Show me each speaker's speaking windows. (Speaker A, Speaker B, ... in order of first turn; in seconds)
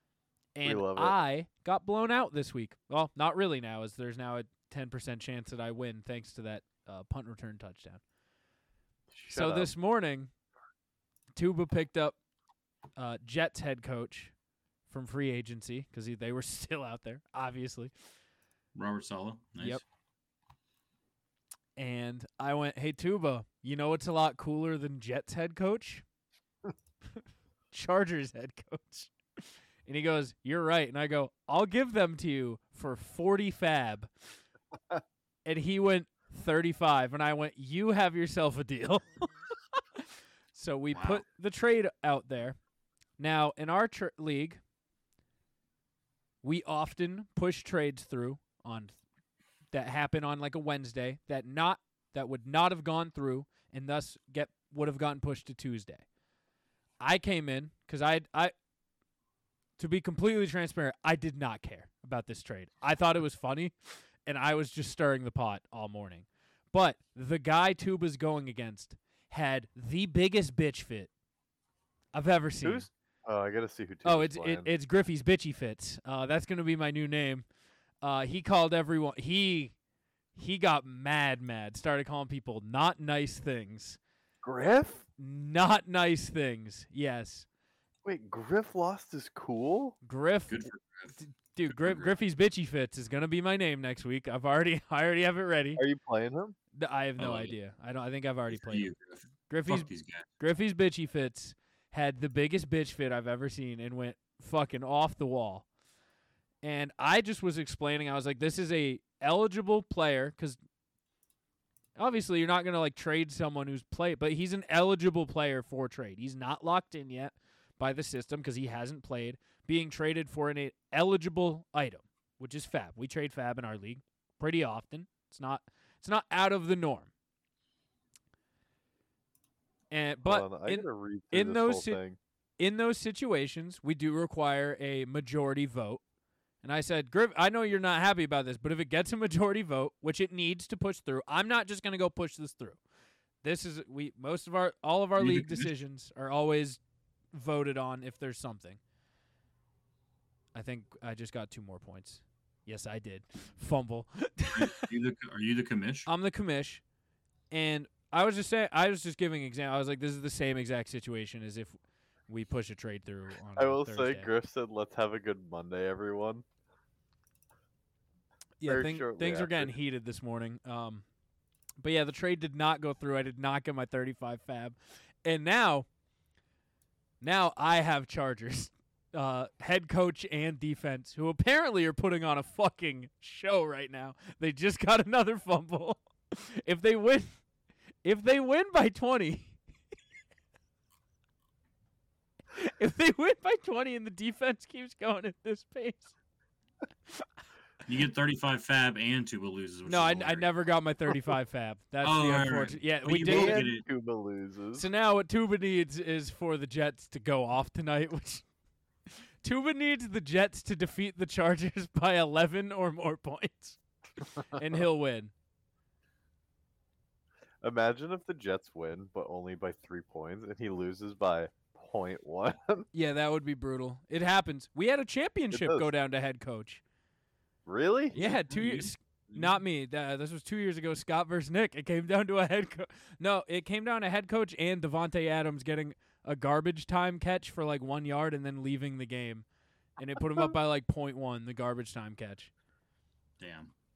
Speaker A: 0.5-8.0, 9.3-10.3, 11.3-12.2, 12.9-14.3, 14.9-17.9, 21.8-26.0, 27.7-34.1, 35.4-39.3, 40.5-42.6, 43.2-44.6, 46.4-48.9, 49.7-56.0, 57.0-58.5, 59.8-71.1, 72.1-72.9, 74.0-77.4, 78.0-79.7, 80.3-84.0, 85.2-87.5, 90.0-90.7, 91.2-95.8, 96.7-98.9, 99.5-105.7, 106.6-110.6, 112.0-127.1, 129.9-132.0, 132.6-136.0, 136.6-142.8, 143.4-146.8, 147.3-148.8, 150.5-154.8, 156.1-156.8, 157.5-164.3, 168.6-171.0, 171.8-175.9, 177.2-187.4, 188.0-189.6, 192.5-196.1, 199.8-203.7, 204.7-208.4, 209.4-213.8, 214.4-215.3, 222.9-226.8, 228.1-239.4, 240.0-242.5
Speaker B: 0.6-1.2, 9.1-9.7, 72.6-74.7, 84.4-85.0, 88.0-90.0, 95.8-96.5, 130.2-132.2, 163.6-166.4, 168.6-169.7, 203.2-204.8, 217.6-222.9, 225.5-225.9, 227.7-228.1
Speaker C: 18.7-19.8, 40.9-41.2, 90.5-92.1, 97.2-97.5, 98.5-100.3, 145.2-145.7, 154.5-156.1, 197.9-200.5, 202.0-203.8, 228.1-229.6, 243.4-243.7